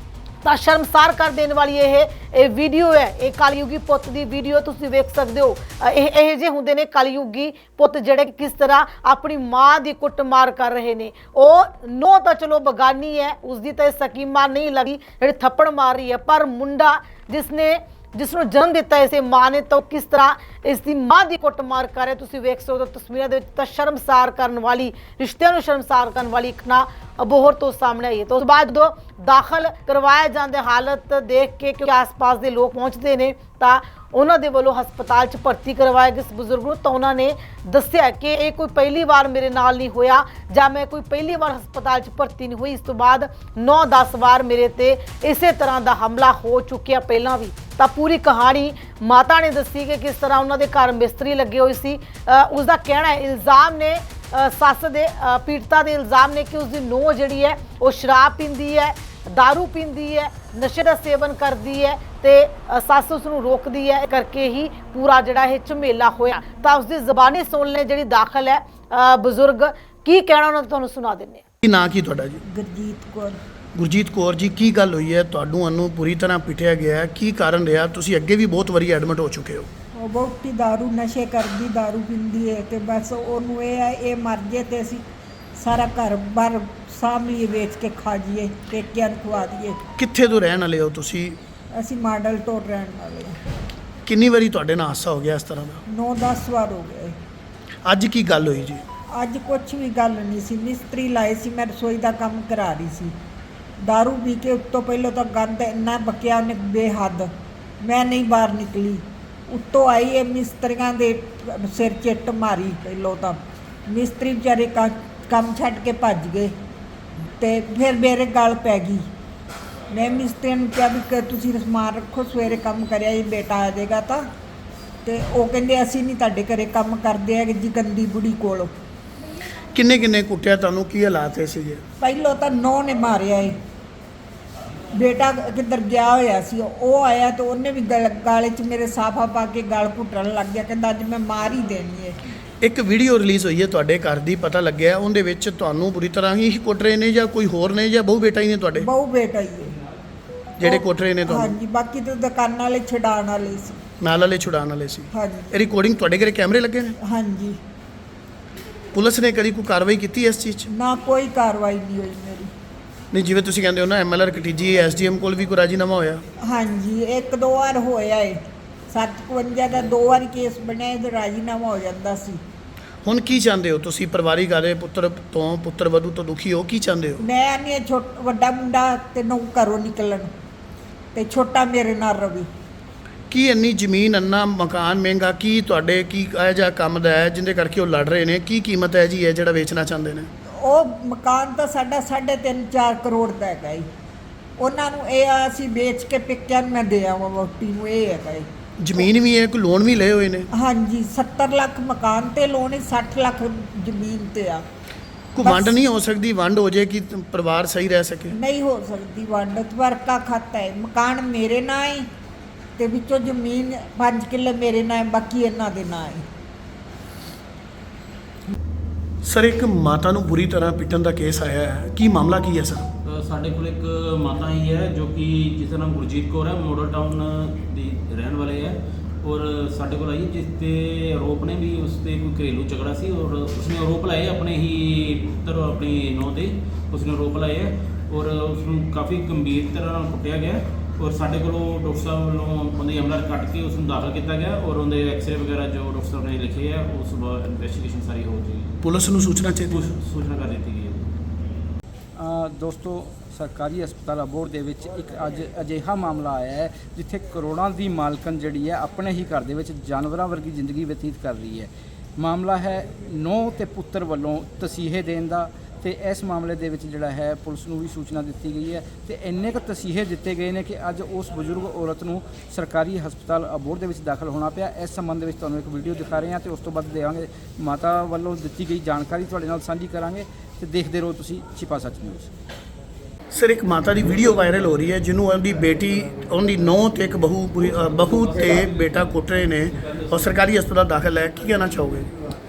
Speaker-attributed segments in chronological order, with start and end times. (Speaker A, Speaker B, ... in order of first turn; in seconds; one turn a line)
Speaker A: 0.4-71.4
Speaker B: 71.6-72.4
Speaker C: 72.5-73.3
Speaker B: 73.8-79.7
Speaker C: 80.0-85.0
Speaker C: 85.6-89.8
Speaker B: 90.0-91.4
Speaker C: 91.8-93.3
Speaker B: 94.1-95.8
Speaker C: 95.9-97.2
Speaker B: 97.8-98.8
Speaker C: 99.2-103.1
Speaker C: 103.9-107.3
Speaker C: 107.8-116.5
Speaker C: 117.4-119.1
Speaker C: 119.9-124.2
Speaker C: 125.0-128.7
Speaker B: 129.7-131.8
Speaker C: 132.0-133.5
Speaker C: 134.9-142.2
Speaker B: 142.6-148.9
Speaker C: 148.8-149.8
Speaker B: 150.6-151.6
Speaker C: 150.6-153.8
Speaker B: 154.0-156.9
Speaker C: 155.1-155.5
Speaker C: 157.0-157.6
Speaker B: 158.9-160.7
Speaker C: 160.7-162.5
Speaker B: 163.1-166.2
Speaker C: 166.4-168.4
Speaker C: 168.9-172.4
Speaker B: 173.1-177.2
Speaker C: 177.2-180.3
Speaker C: 181.2-182.5
Speaker B: 183.3-190.3
Speaker C: 190.5-193.8
Speaker C: 194.6-198.5
Speaker B: 198.8-200.5
Speaker C: 200.5-204.6
Speaker B: 205.3-208.4
Speaker C: 205.4-205.8
Speaker C: 208.3-212.1
Speaker C: 212.8-216.2
Speaker B: 219.2-222.8
Speaker D: 223.1-248.7
Speaker B: 248.8-249.9
Speaker D: 249.7-251.1
Speaker E: 252.2-282.3
Speaker B: 283.3-292.1